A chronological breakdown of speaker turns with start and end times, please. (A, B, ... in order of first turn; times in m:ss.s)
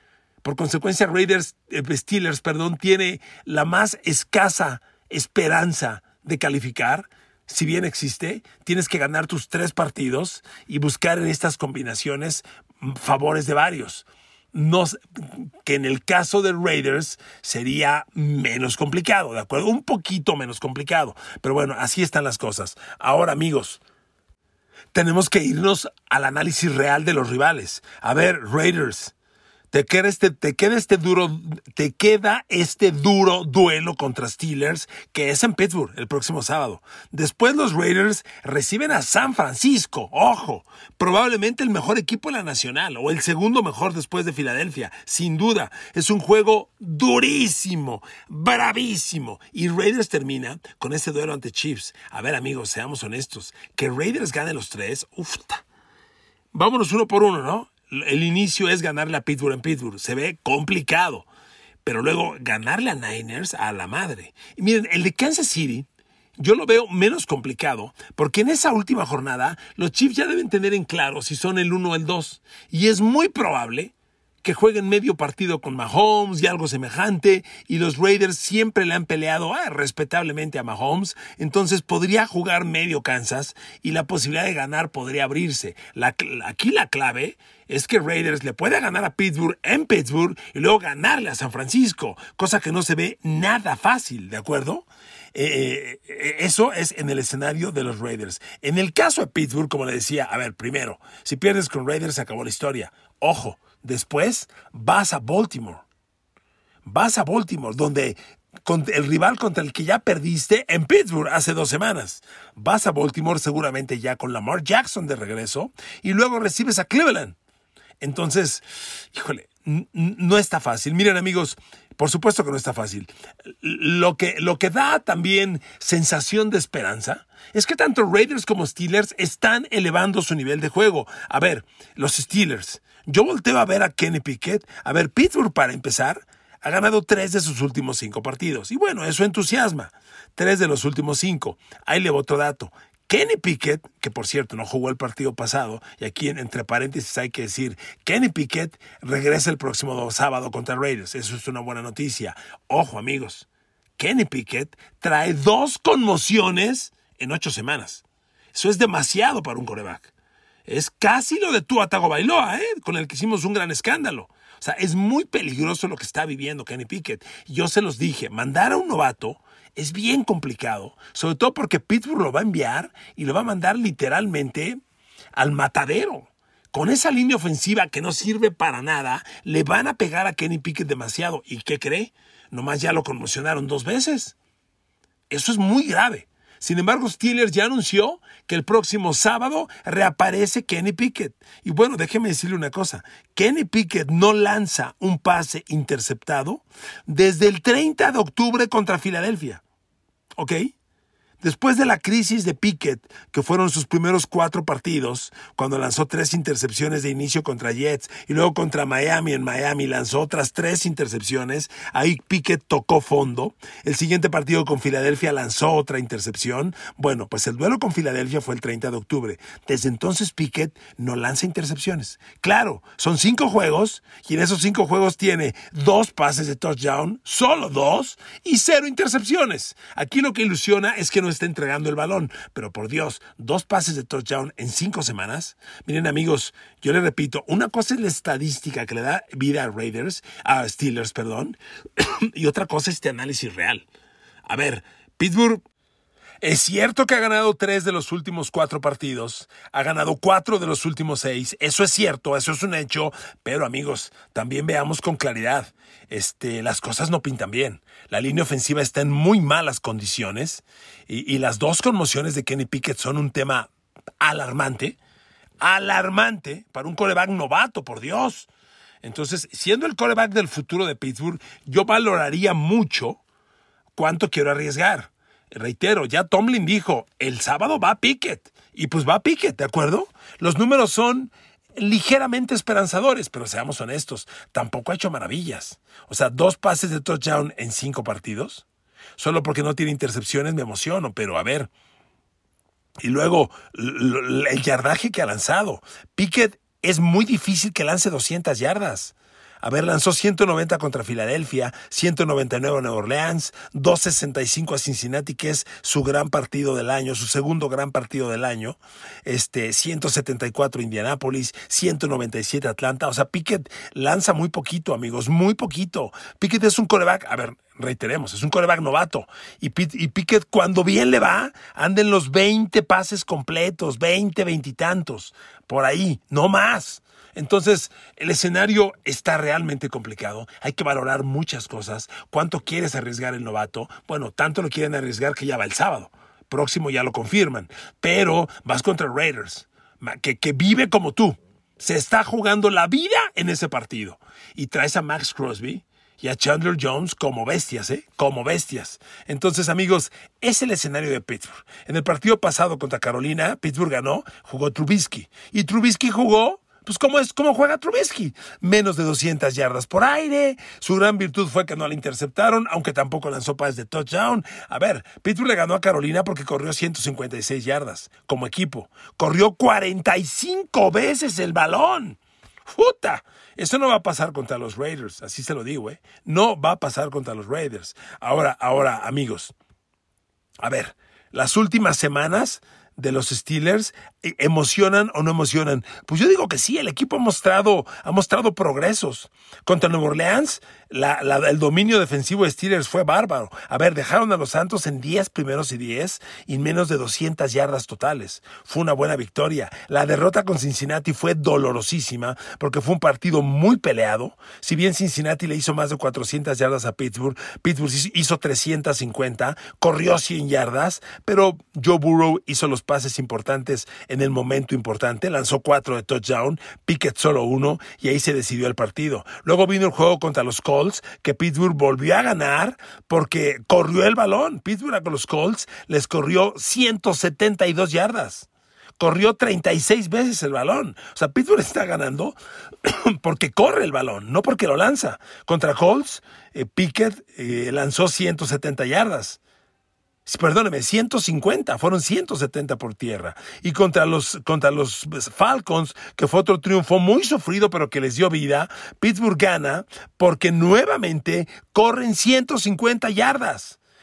0:00.4-0:23.8 A
0:24.9-0:29.1 A
0:29.7-0:55.6 A
0:56.5-1:01.3 A
1:01.8-1:05.8 A
1:06.4-1:45.8 A
1:46.8-1:57.4 A
1:58.0-2:40.1 A
2:40.6-2:54.8 A
2:55.3-3:04.4 A
3:05.3-3:19.6 A
3:20.4-3:20.7 A
3:21.4-4:03.8 A
4:04.5-4:05.6 A
4:06.4-4:23.7 A
4:24.2-4:25.0 A
4:25.6-4:28.5 A
4:29.0-4:33.2 A
4:33.9-4:48.6 A
4:49.2-4:51.7 A
4:53.0-6:19.5 A
6:20.6-7:08.5 A
7:09.0-7:19.4 A
7:20.2-7:33.8 A